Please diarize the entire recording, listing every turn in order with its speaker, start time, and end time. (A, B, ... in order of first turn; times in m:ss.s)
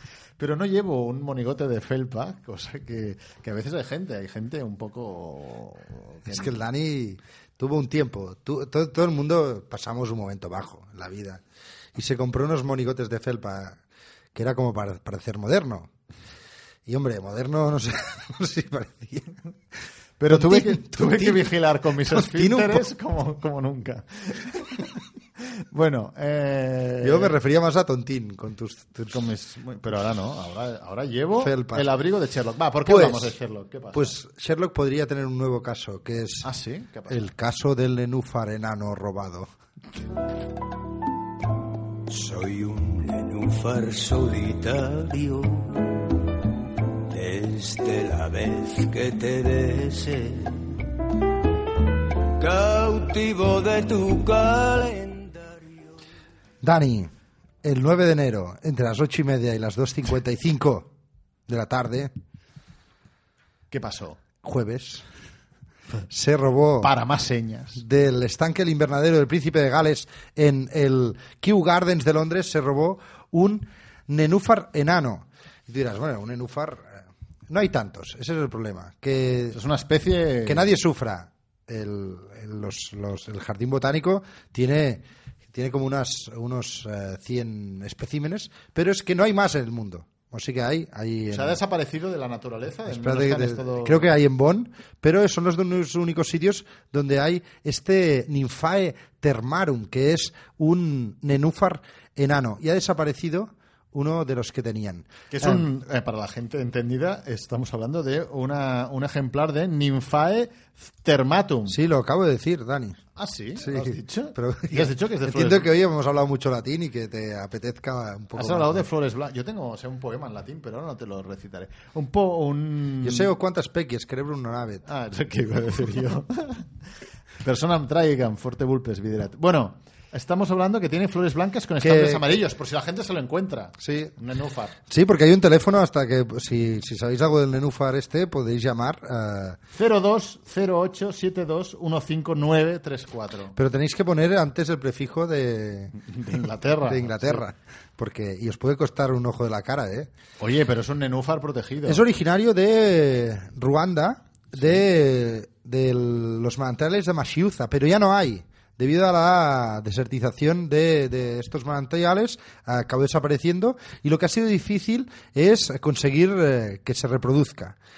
0:00.4-0:06.5 A
0:06.3-0:11.4 B
0:12.0-0:13.8 B
0:14.4-0:15.9 B
0:16.9-0:19.4 B
0:20.2-0:27.4 A
0:20.3-0:21.5 B
0:22.1-0:22.8 B
0:27.0-0:29.1 B
0:29.0-0:34.2 A
0:31.4-0:31.9 B
0:32.8-0:33.3 B
0:33.9-0:36.5 B
0:36.4-0:37.3 A
0:37.1-0:39.5 B
0:42.1-0:46.0 C
0:47.1-0:50.7 C
0:52.4-0:55.8 C
0:56.6-0:57.1 B
0:57.6-1:00.9 B
1:01.5-1:02.1 B
1:03.7-1:04.2 A
1:04.4-1:05.0 B
1:06.1-1:06.9 B
1:06.8-1:07.8 A
1:07.8-1:19.6 B
1:19.5-1:20.7 A
1:20.4-1:31.6 B
1:31.3-1:34.1 A
1:32.9-1:45.6 B
1:45.3-1:51.8 A
1:51.7-1:53.0 B
1:53.2-1:55.7 A
1:53.6-1:58.9 B
1:58.4-2:03.3 A
2:03.0-2:04.9 B
2:04.9-2:06.7 A
2:07.4-2:14.8 A
2:11.8-2:12.3 B
2:13.8-2:14.1 B
2:14.9-2:19.6 B
2:19.7-2:23.6 A
2:23.6-2:26.0 B
2:26.0-2:27.4 A
2:26.9-2:30.1 B
2:30.4-2:32.0 A
2:31.9-2:47.8 B